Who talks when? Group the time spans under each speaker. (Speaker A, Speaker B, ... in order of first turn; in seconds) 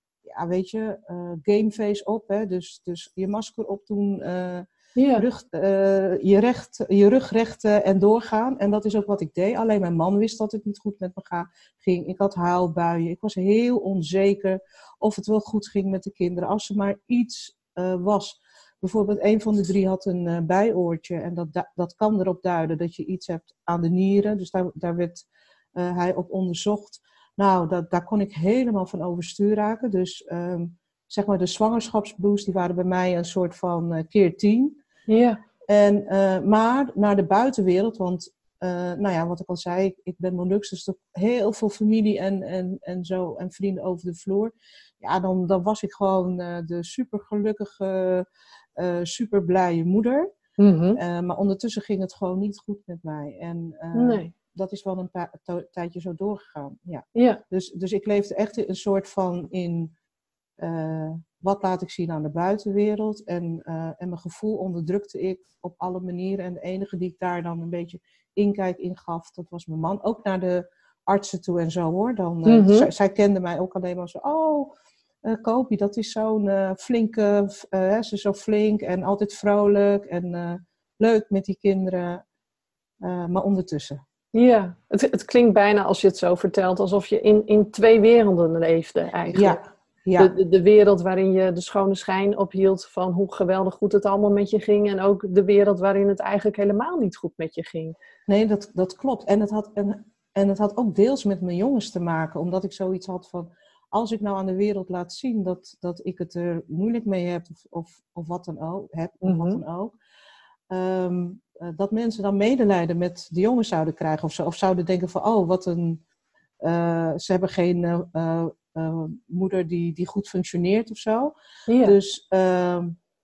Speaker A: 0.2-34.8, 35.7-48.2, 48.8-50.3, 51.0-59.9, 60.6-74.7, 75.2-82.2, 83.0-84.0, 89.3-90.3, 98.3-109.9, 110.7-116.0, 116.6-123.0
Speaker B: 5.0-5.2, 35.1-35.4, 50.6-51.0, 53.9-54.3, 57.1-57.4, 72.5-72.9, 84.3-89.6, 90.2-97.9, 109.2-109.6, 121.7-122.0